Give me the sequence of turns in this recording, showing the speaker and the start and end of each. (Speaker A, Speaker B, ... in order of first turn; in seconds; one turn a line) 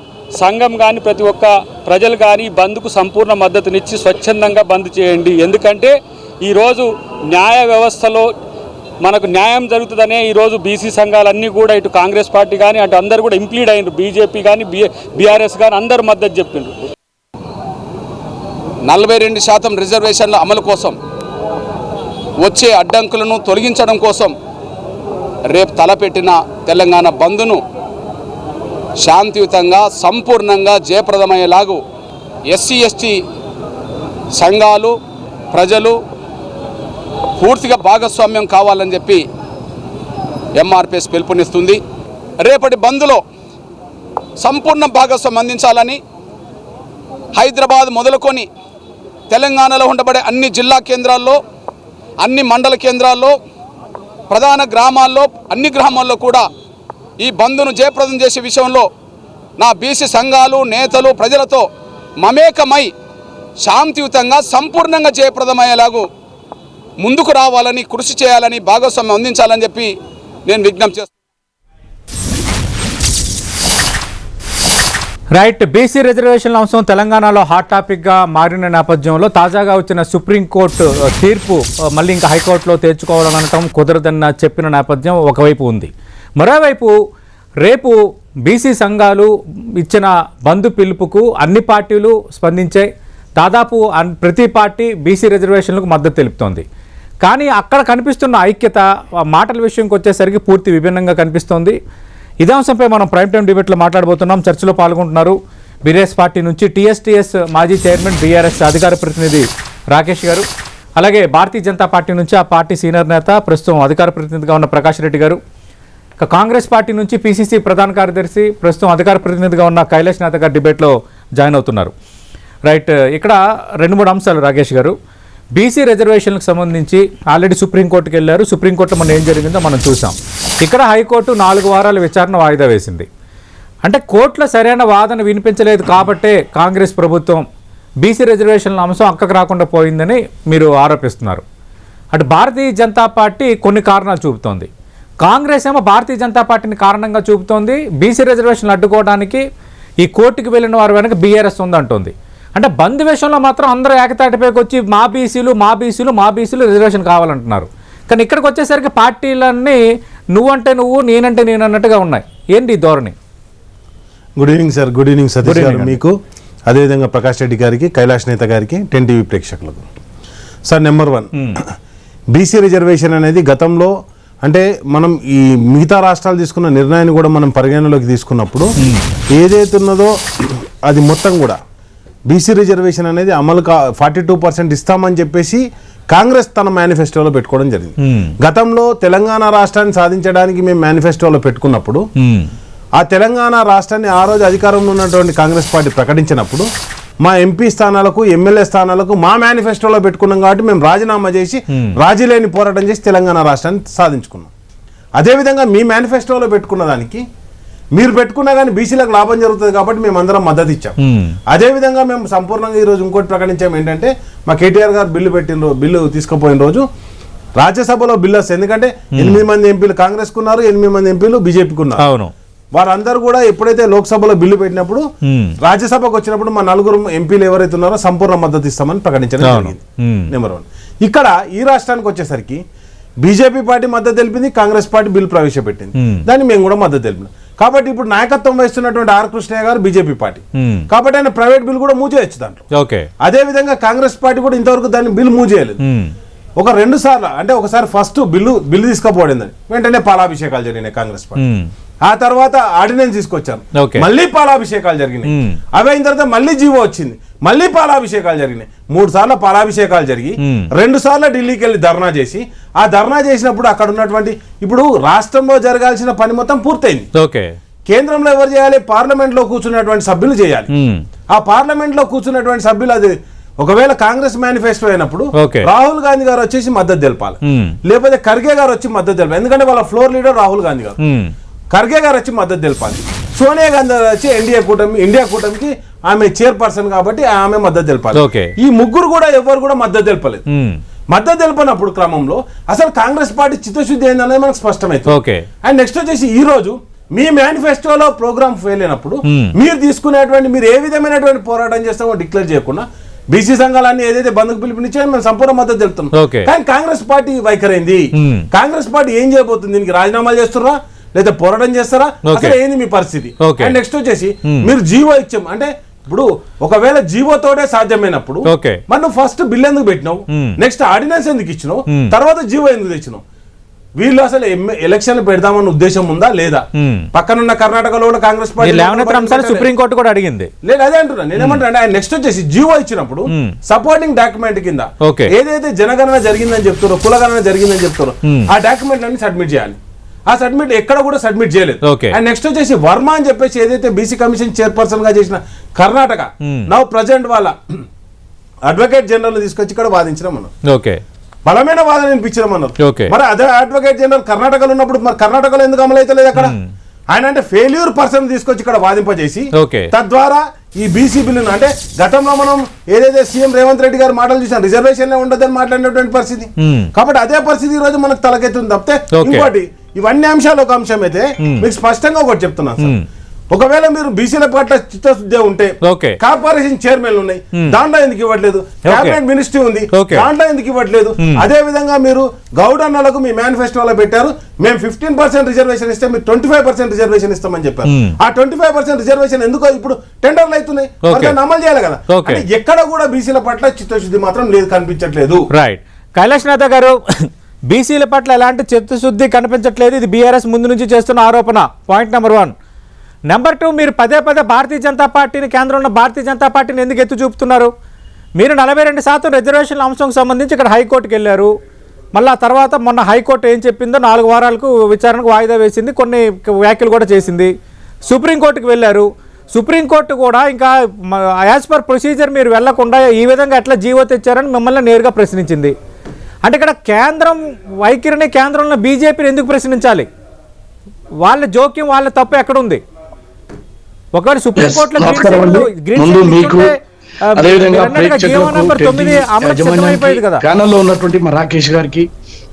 Speaker A: 0.4-8.3
Speaker A: 9.0-16.7
Speaker B: 18.9-20.9
Speaker B: 22.4-24.3
Speaker B: 25.5-27.6
Speaker B: 29.0-31.8
Speaker B: 32.5-33.2
Speaker B: 34.4-34.9
Speaker B: 35.5-36.0
Speaker B: 37.4-39.2
Speaker B: 40.6-41.8
Speaker B: 42.4-43.2
Speaker B: 44.4-46.0
Speaker B: 47.4-48.5
Speaker B: 49.3-51.4
Speaker B: 52.2-53.4
Speaker B: 54.3-56.5
Speaker B: 57.2-58.9
Speaker B: 59.6-61.7
Speaker B: 62.2-62.9
Speaker B: 63.6-66.0
Speaker B: 67.0-69.9
Speaker B: 70.5-71.1
Speaker C: 75.3-86.9
Speaker C: 87.6-89.3
Speaker C: 89.8-96.6
Speaker C: 97.2-101.8
Speaker C: 102.4-110.5
Speaker C: 111.0-115.4
Speaker C: 116.2-121.9
Speaker C: 122.7-125.0
Speaker C: 125.6-133.1
Speaker C: 133.8-137.5
Speaker C: 138.0-141.4
Speaker C: 142.1-144.7
Speaker C: 145.2-149.4
Speaker C: 150.0-159.8
Speaker C: 160.3-163.2
Speaker D: 164.4-166.2
Speaker C: 165.4-165.9
Speaker D: 166.7-169.8
Speaker D: 170.7-171.6
Speaker D: 172.3-173.9
Speaker D: 174.4-178.7
Speaker D: 179.3-181.6
Speaker D: 182.3-192.0
Speaker C: 188.0-188.3
Speaker C: 192.2-192.5
Speaker D: 193.0-196.7
Speaker D: 197.2-204.5
Speaker D: 205.2-207.2
Speaker D: 207.9-211.0
Speaker C: 211.0-211.4
Speaker D: 211.5-216.8
Speaker D: 217.6-222.0
Speaker C: 219.2-219.4
Speaker C: 222.0-222.3
Speaker D: 222.8-225.1
Speaker C: 225.3-225.5
Speaker D: 225.6-232.6
Speaker C: 229.4-230.3
Speaker D: 233.2-242.6
Speaker C: 240.6-240.9
Speaker C: 242.8-243.1
Speaker D: 243.2-245.8
Speaker C: 245.8-246.1
Speaker D: 246.6-251.4
Speaker C: 251.4-251.7
Speaker D: 252.1-267.1
Speaker C: 253.8-254.1
Speaker C: 255.3-255.6
Speaker C: 260.4-260.7
Speaker C: 267.2-267.6
Speaker D: 267.9-270.7
Speaker C: 270.7-271.0
Speaker D: 271.3-281.0
Speaker C: 275.4-275.7
Speaker C: 277.5-277.8
Speaker C: 281.0-281.3
Speaker D: 281.7-290.4
Speaker C: 288.1-288.5
Speaker C: 290.5-290.8
Speaker D: 291.1-295.1
Speaker C: 295.1-295.4
Speaker D: 295.6-323.2
Speaker C: 306.1-306.5
Speaker C: 308.2-308.5
Speaker C: 312.3-312.6
Speaker C: 313.4-313.8
Speaker C: 318.5-318.8
Speaker D: 324.0-329.7
Speaker C: 326.8-327.1
Speaker C: 328.6-330.5
Speaker D: 330.6-347.6
Speaker C: 331.4-331.6
Speaker C: 335.1-335.3
Speaker C: 341.9-342.2
Speaker D: 348.7-350.5
Speaker C: 350.7-351.0
Speaker D: 351.5-356.6
Speaker C: 352.8-353.1
Speaker C: 356.4-356.7
Speaker D: 357.1-373.0
Speaker C: 359.6-359.9
Speaker C: 366.6-366.9
Speaker C: 369.1-369.5
Speaker D: 373.5-395.5
Speaker C: 375.9-376.2
Speaker C: 378.9-379.2
Speaker C: 379.9-380.3
Speaker C: 381.2-381.5
Speaker C: 387.9-388.1
Speaker C: 391.1-391.4
Speaker C: 392.1-392.4
Speaker C: 395.5-402.5
Speaker C: 403.3-407.7
Speaker C: 408.4-411.5
Speaker C: 412.1-417.5
Speaker C: 418.1-425.7
Speaker C: 426.5-430.1
Speaker C: 431.2-432.8
Speaker C: 434.2-436.7
Speaker E: 434.6-436.7
Speaker C: 437.3-440.4
Speaker E: 437.4-442.1